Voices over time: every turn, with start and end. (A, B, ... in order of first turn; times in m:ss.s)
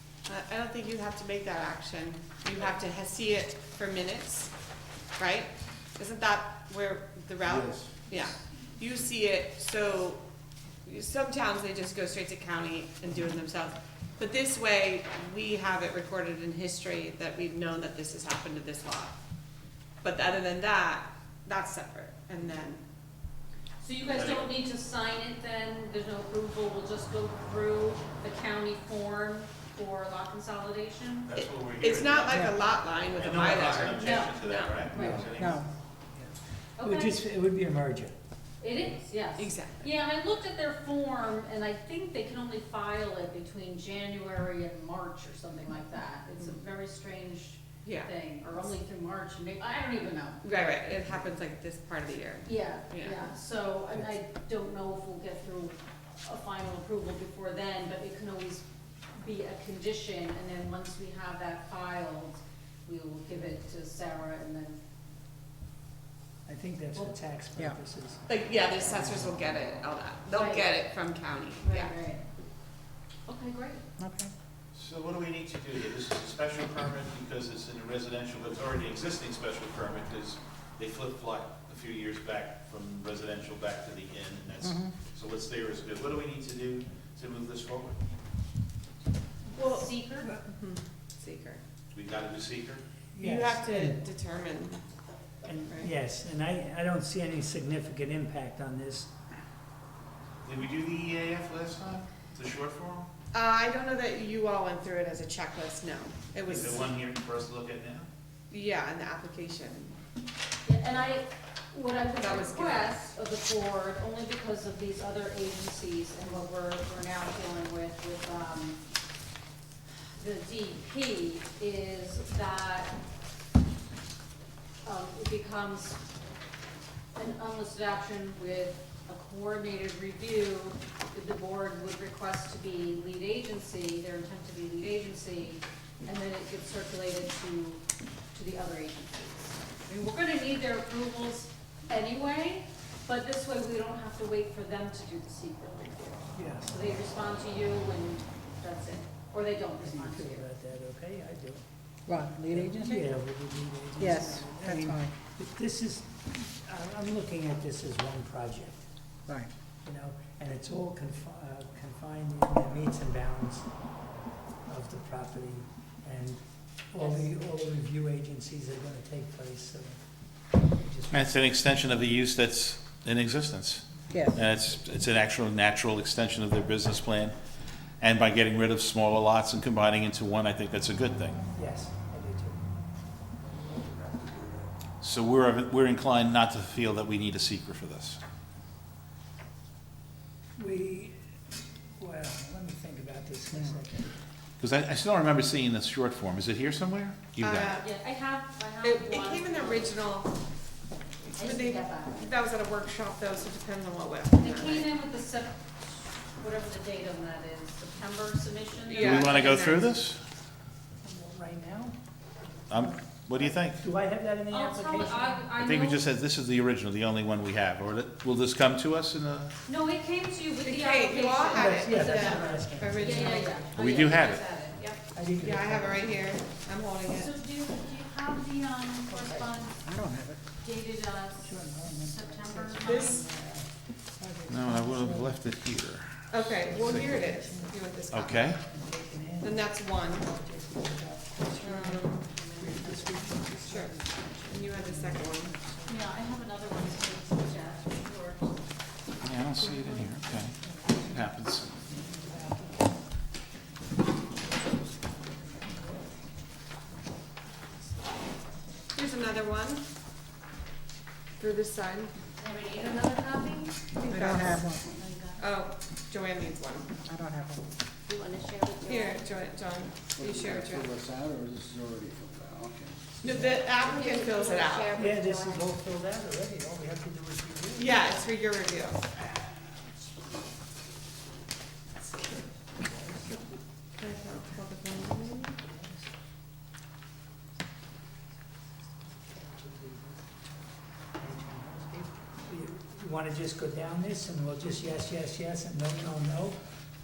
0:00.3-0:04.5 A
0:05.2-0:10.2 A
0:07.4-0:07.9 B
0:10.9-0:19.2 A
0:20.0-0:22.8 A
0:23.8-0:31.3 C
0:24.0-0:24.5 D
0:31.3-0:35.7 D
0:31.8-0:34.8 A
0:34.0-0:35.3 C
0:35.3-0:35.7 E
0:36.8-0:37.2 C
0:36.8-0:38.1 F
0:38.6-0:50.4 C
0:39.4-0:39.9 A
0:47.8-0:48.1 A
0:50.4-0:53.3 A
0:52.4-1:04.8 C
1:06.5-1:09.6 F
1:08.3-1:12.0 A
1:10.3-1:10.7 C
1:11.6-1:12.2 C
1:13.3-1:13.9 C
1:14.0-1:14.3 E
1:14.7-1:28.0 D
1:24.6-1:24.9 E
1:29.5-1:30.3 C
1:29.6-1:31.6 A
1:31.9-1:32.8 D
1:33.2-1:34.0 F
1:33.2-1:34.8 A
1:35.4-1:39.1 F
1:40.4-1:43.1 D
1:43.3-1:46.9 A
1:46.5-1:48.1 D
1:48.5-1:50.0 A
1:50.6-1:58.8 C
1:52.1-1:53.0 A
2:00.2-2:03.0 C
2:04.8-2:06.0 C
2:07.2-2:17.8 C
2:18.3-2:30.5 C
2:26.3-2:26.8 F
2:29.8-2:31.6 F
2:32.1-2:33.1 E
2:32.4-2:38.9 F
2:34.0-2:35.1 E
2:39.8-2:43.6 F
2:44.7-2:50.0 F
2:50.7-2:52.0 F
2:51.1-2:57.4 D
2:54.1-2:54.4 E
2:58.0-3:01.4 D
3:01.5-3:02.6 F
3:03.9-3:04.4 F
3:05.0-3:08.2 D
3:10.6-3:11.2 F
3:11.9-3:14.2 F
3:14.6-3:17.8 D
3:17.4-3:17.9 A
3:17.8-3:20.0 C
3:18.8-3:20.3 A
3:21.2-3:24.9 A
3:21.4-3:22.3 C
3:24.4-3:29.7 C
3:28.9-3:29.9 A
3:29.0-3:30.2 D
3:31.0-3:32.0 F
3:32.7-3:33.8 D
3:32.7-3:33.0 F
3:33.7-3:35.5 F
3:34.5-3:36.0 C
3:35.6-3:39.5 D
3:39.7-3:45.0 C
3:40.6-3:43.7 A
3:41.5-3:43.7 F
3:43.8-3:44.4 D
3:45.1-3:46.4 F
3:45.4-3:47.3 A
3:47.1-3:49.8 C
3:49.1-3:49.6 F
3:49.8-3:50.4 E
3:50.6-3:53.3 C
3:51.4-3:55.4 F
3:52.8-3:53.2 A
3:54.5-3:57.2 D
3:56.3-3:58.6 A
3:56.7-3:57.9 F
3:58.1-3:58.6 D
3:58.6-4:06.6 F
3:59.4-4:00.3 A
4:01.6-4:02.3 A
4:02.3-4:03.5 C
4:03.6-4:03.9 A
4:04.5-4:05.5 A
4:05.9-4:08.6 C
4:09.2-4:10.6 D
4:09.6-4:10.1 C
4:10.6-4:11.2 F
4:11.1-4:11.8 D
4:11.8-4:13.0 F
4:14.4-4:16.2 F
4:18.9-4:19.8 A
4:21.4-4:22.1 A
4:22.4-4:25.4 C
4:24.0-4:24.6 A
4:24.1-4:25.0 E
4:25.4-4:26.9 A
4:27.0-4:27.6 E
4:28.1-4:29.2 C
4:28.9-4:30.9 A
4:30.2-4:33.4 B
4:33.2-4:34.9 A
4:33.2-4:33.7 F
4:33.8-4:35.5 C
4:35.0-4:38.2 F
4:37.8-4:39.0 A
4:42.9-4:43.2 F
4:44.0-4:45.6 A
4:45.6-4:46.1 F
4:49.2-4:50.3 F
4:51.2-4:56.6 F